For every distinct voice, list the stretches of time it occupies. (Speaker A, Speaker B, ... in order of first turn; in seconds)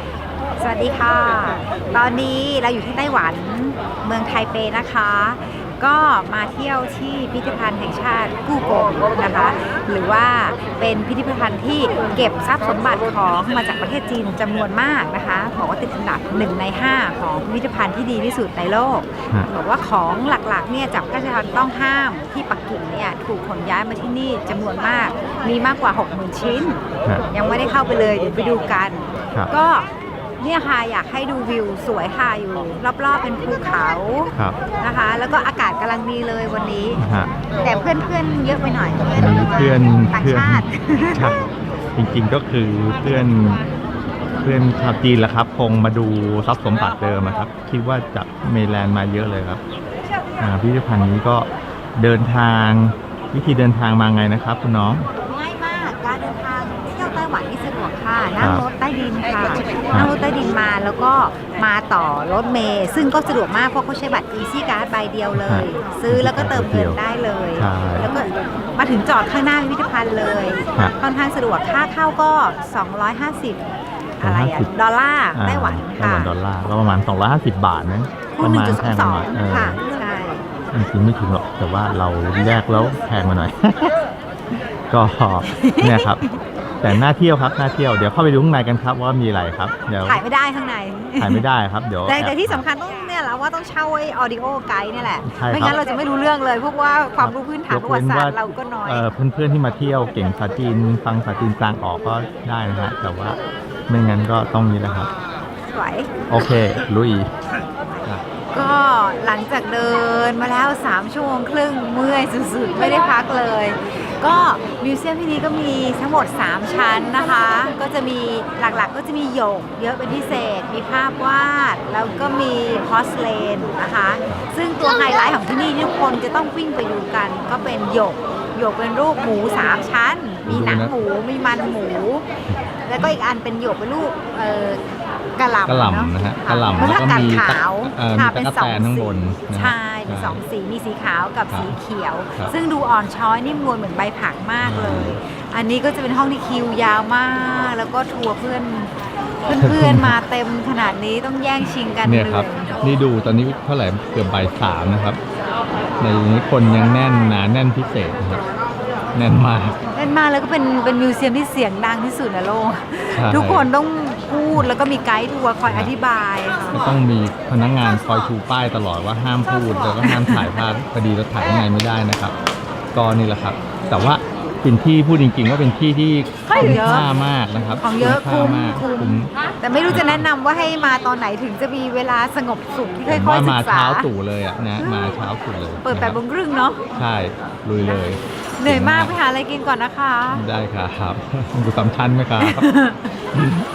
Speaker A: 0.6-37.0, 37.6-41.3, 55.2-73.7, 74.2-76.3, 78.3-80.5, 85.4-86.4, 90.0-91.4, 92.0-99.0, 105.7-106.2, 107.9-132.3, 132.8-134.8, 135.4-152.8, 159.9-166.9, 170.0-170.6, 176.5-177.1, 177.8-184.1, 184.8-185.2, 185.8-186.9, 188.6-190.4, 192.4-193.2
Speaker B: 37.0-37.3, 39.1-43.6, 44.4-49.6, 50.4-55.1, 58.4-58.6, 65.3-67.0, 67.6-68.1, 74.2-74.7, 75.3-79.8, 80.7-84.0, 84.9-86.2, 86.8-90.2, 91.2-92.6, 95.2-95.8, 97.2-105.1, 106.3-107.3, 124.3-124.5, 130.5-130.9, 135.7-140.4, 141.5-141.8, 144.6-145.2, 149.5-150.2, 152.0-155.2, 156.0-158.4, 159.2-159.8, 163.1-163.7, 165.7-165.9, 166.7-172.4, 172.9-179.3, 179.9-180.3, 183.1-186.2, 186.9-189.2, 190.3-192.7, 193.3-193.7